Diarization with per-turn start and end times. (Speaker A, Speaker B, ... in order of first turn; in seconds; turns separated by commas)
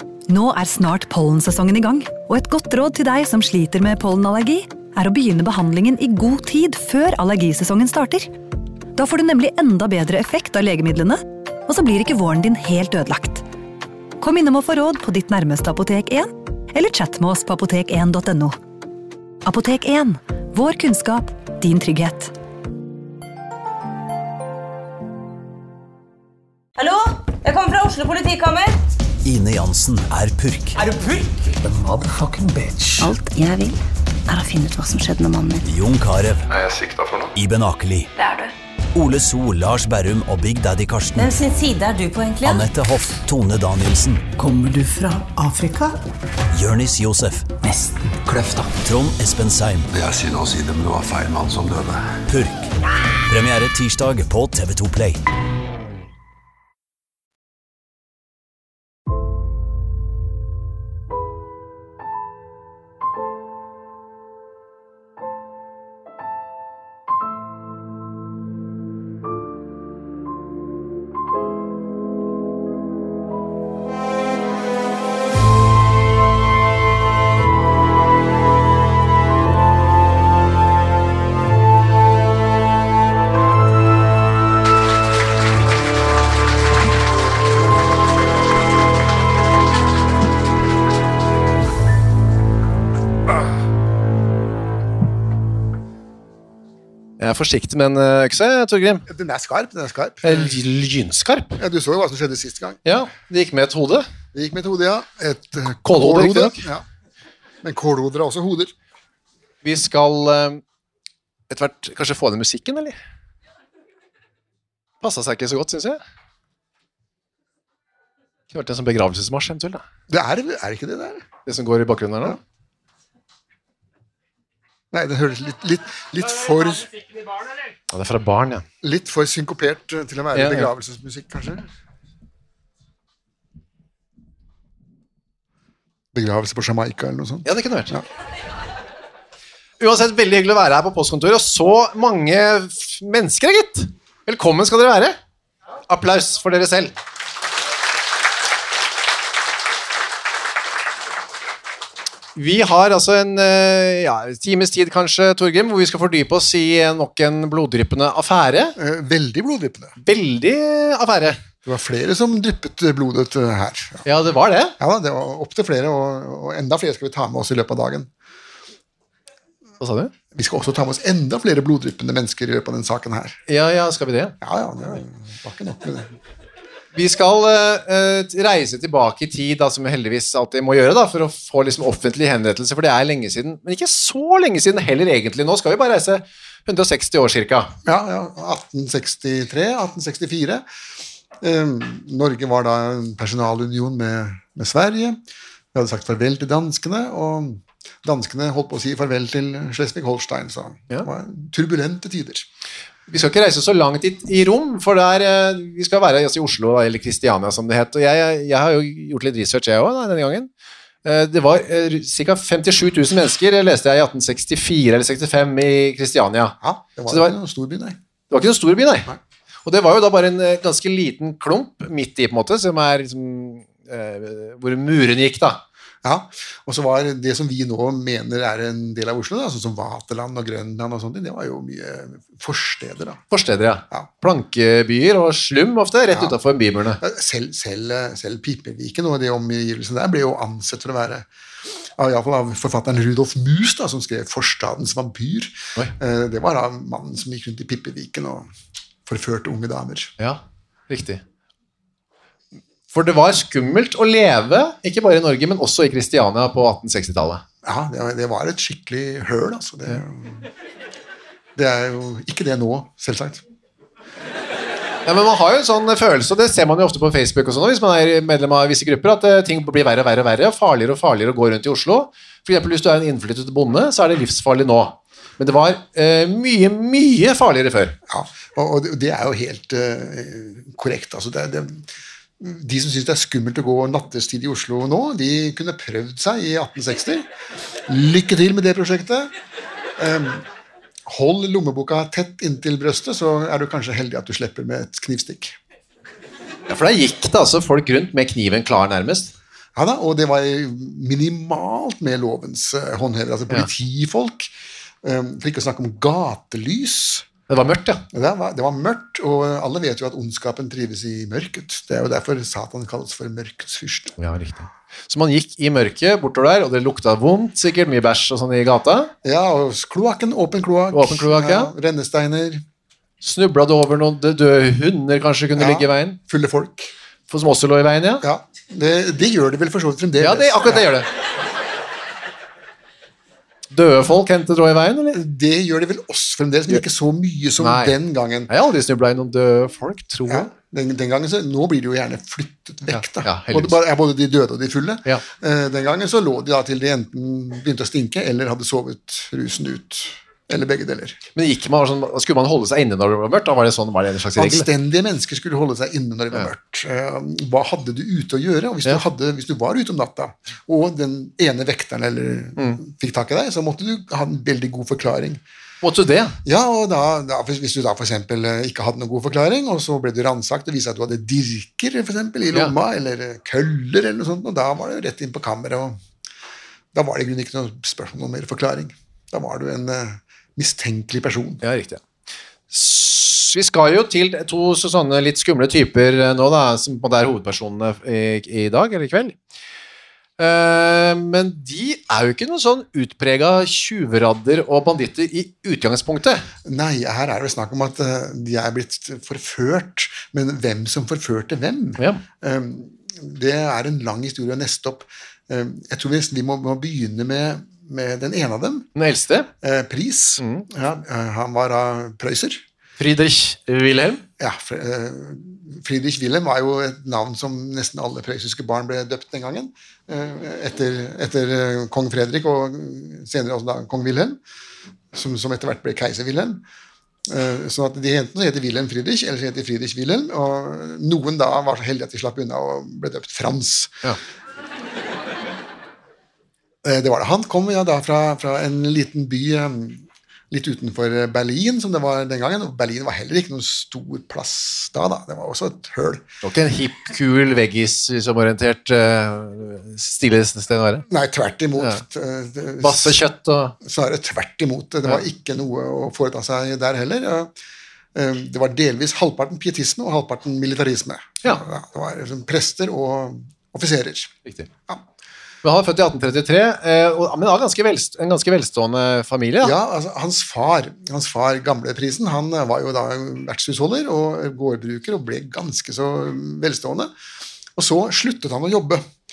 Speaker A: 0.3-8.3, Speaker A: 8.9-13.4, Speaker A: 14.2-18.6, Speaker A: 19.4-22.3, Speaker B: 26.8-28.8, Speaker C: 29.2-30.9, Speaker D: 31.6-33.1, Speaker E: 33.0-35.6, Speaker C: 35.6-36.5, Speaker F: 36.5-37.3, Speaker C: 37.4-38.1, Speaker B: 38.1-38.5, Speaker C: 38.9-41.4, Speaker B: 41.1-42.7, Speaker C: 42.4-44.3, Speaker D: 44.4-46.0, Speaker C: 46.5-47.5, Speaker D: 47.6-48.8, Speaker C: 48.8-49.9, Speaker F: 49.9-52.2, Speaker C: 52.3-52.7, Speaker C: 53.3-55.2, Speaker G: 97.2-99.0, Speaker H: 99.1-100.6, Speaker G: 100.2-101.6, Speaker H: 101.6-102.9, Speaker G: 102.8-104.1, Speaker H: 104.3-106.8, Speaker G: 105.8-106.6, Speaker H: 107.6-108.7, Speaker G: 109.6-110.6, Speaker G: 111.5-113.0, Speaker G: 115.0-116.0, Speaker G: 118.5-119.8, Speaker H: 120.1-121.2, Speaker G: 121.5-122.4, Speaker H: 124.9-126.9, Speaker G: 127.9-128.6, Speaker H: 128.8-131.7, Speaker G: 130.3-130.7, Speaker H: 136.1-138.0, Speaker G: 137.4-138.0, Speaker G: 139.8-145.2, Speaker G: 145.9-146.9, Speaker G: 152.3-158.7, Speaker H: 158.8-159.9, Speaker G: 160.0-161.4, Speaker H: 161.6-164.0, Speaker G: 164.0-164.8, Speaker H: 164.8-168.1, Speaker G: 169.8-170.1, Speaker H: 170.3-173.4, Speaker G: 173.5-174.3, Speaker H: 174.4-176.1, Speaker G: 176.9-187.7, Speaker H: 187.8-190.6, Speaker H: 191.4-195.2, Speaker H: 195.7-202.5, Speaker G: 203.1-210.5, Speaker G: 211.0-216.6, Speaker H: 216.6-218.0, Speaker G: 218.3-219.1, Speaker G: 219.6-225.6, Speaker H: 226.0-233.2, Speaker G: 233.3-237.0, Speaker H: 236.1-236.3, Speaker H: 237.0-241.3, Speaker H: 242.0-248.5, Speaker H: 249.1-250.1, Speaker G: 250.2-251.2, Speaker G: 252.9-257.4, Speaker H: 257.6-260.5, Speaker H: 261.6-263.4, Speaker G: 265.1-277.9, Speaker H: 278.1-281.9, Speaker H: 282.4-287.3, Speaker H: 287.9-289.3, Speaker H: 290.0-290.4, Speaker H: 291.1-295.6, Speaker G: 296.7-299.3, Speaker H: 299.8-307.3, Speaker G: 307.5-308.0, Speaker H: 308.1-314.1, Speaker G: 314.2-319.1, Speaker H: 319.2-322.6, Speaker G: 320.9-321.7, Speaker G: 323.2-326.2, Speaker H: 325.5-326.9, Speaker G: 327.3-328.2, Speaker H: 328.2-330.9, Speaker G: 330.2-331.1, Speaker G: 333.7-335.2, Speaker H: 335.1-338.5, Speaker G: 337.6-337.9, Speaker G: 338.5-340.5, Speaker H: 340.3-351.2, Speaker G: 342.9-343.8, Speaker G: 351.4-354.7, Speaker H: 354.3-365.4, Speaker G: 365.8-366.4, Speaker H: 366.4-376.0, Speaker H: 376.9-381.6, Speaker G: 381.6-382.0, Speaker G: 382.7-389.4, Speaker G: 390.4-396.4, Speaker H: 396.6-408.9, Speaker G: 402.0-402.2, Speaker G: 409.0-409.5, Speaker H: 409.6-412.6, Speaker G: 410.4-410.6, Speaker G: 413.0-414.2, Speaker H: 414.4-424.4, Speaker H: 425.1-426.6, Speaker H: 427.3-434.0, Speaker H: 436.8-446.2, Speaker G: 446.4-451.0, Speaker H: 451.1-453.2, Speaker G: 452.8-453.8, Speaker H: 453.8-457.5, Speaker H: 458.1-464.3, Speaker G: 465.6-469.8, Speaker H: 469.6-477.1, Speaker H: 477.8-479.0